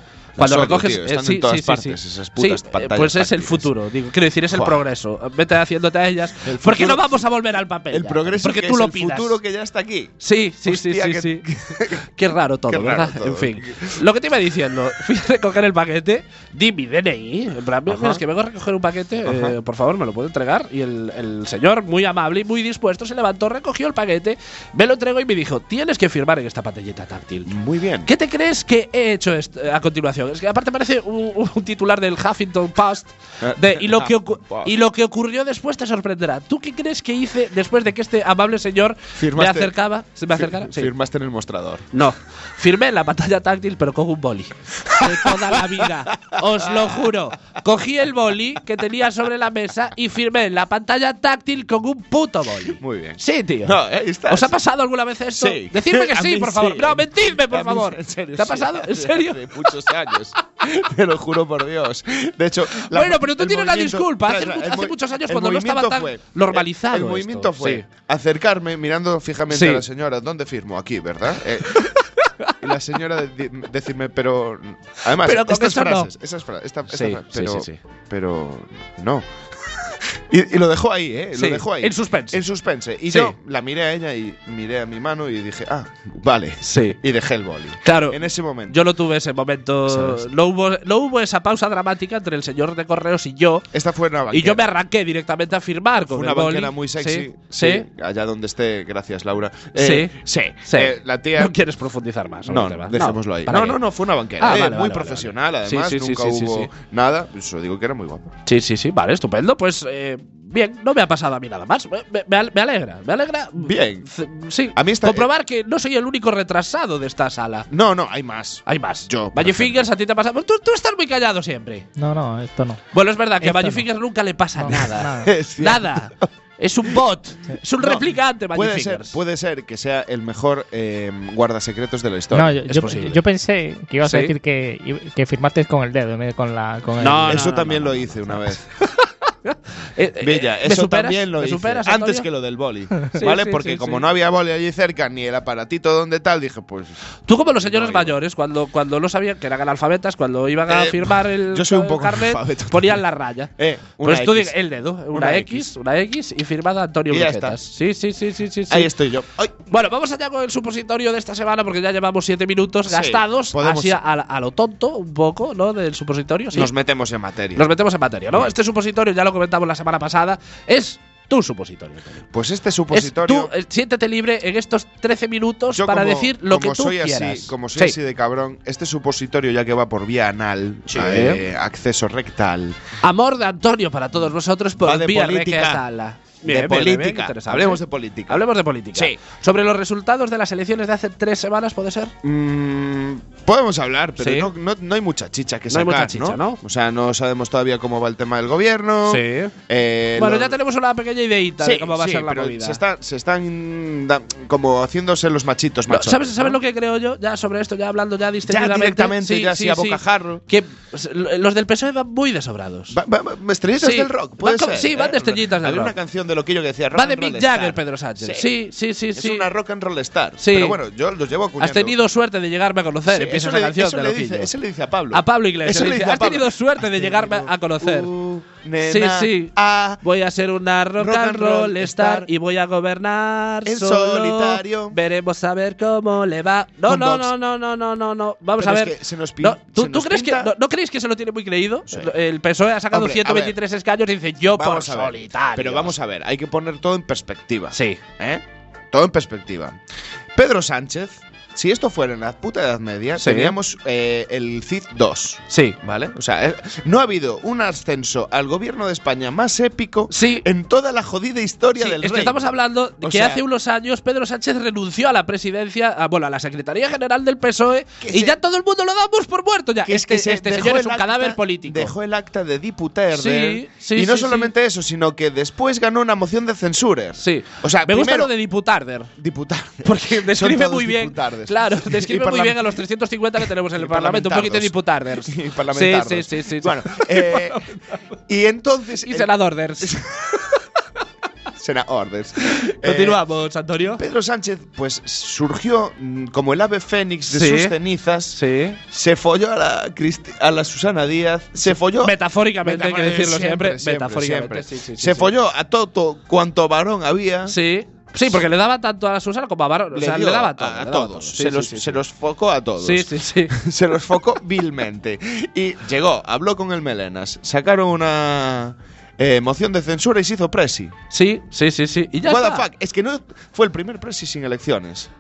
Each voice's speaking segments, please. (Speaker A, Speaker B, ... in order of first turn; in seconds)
Speaker A: 0.4-3.7, 4.5-4.8, 6.3-7.2, 7.9-12.1, 12.7-14.0, 17.9-18.2, 19.2-19.6, 27.5-28.1, 33.4-34.8, 39.1-39.8, 40.3-41.9, 44.9-47.1, 52.6-54.6, 55.3-71.9, 72.6-88.8, 89.9-90.3, 93.7-94.7, 96.1-101.6, 102.5-108.3, 113.6-114.1, 114.7-115.3, 117.7-119.9, 125.0-126.3, 127.8-132.8, 137.2-138.7, 140.2-146.9, 147.6-148.2, 150.7-153.0, 153.6-154.6, 155.1-155.7, 157.1-157.6, 158.7-159.6, 162.8-164.0, 166.5-167.7, 172.3-173.5, 175.7-182.8, 184.8-185.8, 186.4-189.2, 192.2-200.6, 201.6-206.6, 208.4-210.4, 212.9-218.6, 219.1-222.0, 223.1-230.0, 231.0-232.3, 233.7-235.0, 236.8-237.3, 238.6-240.5, 242.9-243.6, 244.5-249.8, 250.3-263.4, 268.0-268.4, 269.9-278.3, 279.2-282.8, 283.4-290.5, 291.6-293.2, 293.9-307.6, 309.9-320.9, 322.2-325.1
Speaker B: 0.4-9.4, 10.2-27.5, 28.1-40.9, 41.9-53.8, 54.3-60.2, 62.7-67.8, 69.5-69.8, 71.6-72.6, 75.1-76.1, 76.9-77.8, 81.3-82.4, 83.0-83.3, 86.7-87.0, 87.8-93.7, 94.3-97.9, 99.8-103.8, 104.4-106.7, 108.5-117.7, 118.7-121.9, 122.9-129.2, 132.7-133.2, 134.0-134.3, 137.0-138.0, 138.9-142.3, 143.2-144.1, 147.3-158.9, 159.7-166.7, 167.6-172.2, 172.9-178.0, 180.9-181.4, 183.0-192.1, 194.2-194.5, 195.7-196.6, 199.1-199.5, 200.2-202.8, 205.9-213.0, 213.8-216.0, 216.9-219.5, 220.4-220.8, 221.6-224.5, 225.1-228.1, 228.8-245.9, 247.7-248.0, 253.2-253.6, 255.5-255.8, 260.1-260.5, 261.8-271.9, 273.1-274.5, 277.2-279.1, 279.8-287.8, 289.0-290.0, 292.4-294.0, 297.3-297.8, 298.3-298.8, 301.6-305.3, 307.5-312.0, 312.8-313.6, 321.1-322.7
Speaker C: 122.0-122.8, 123.4-123.8, 124.6-125.3, 132.3-138.2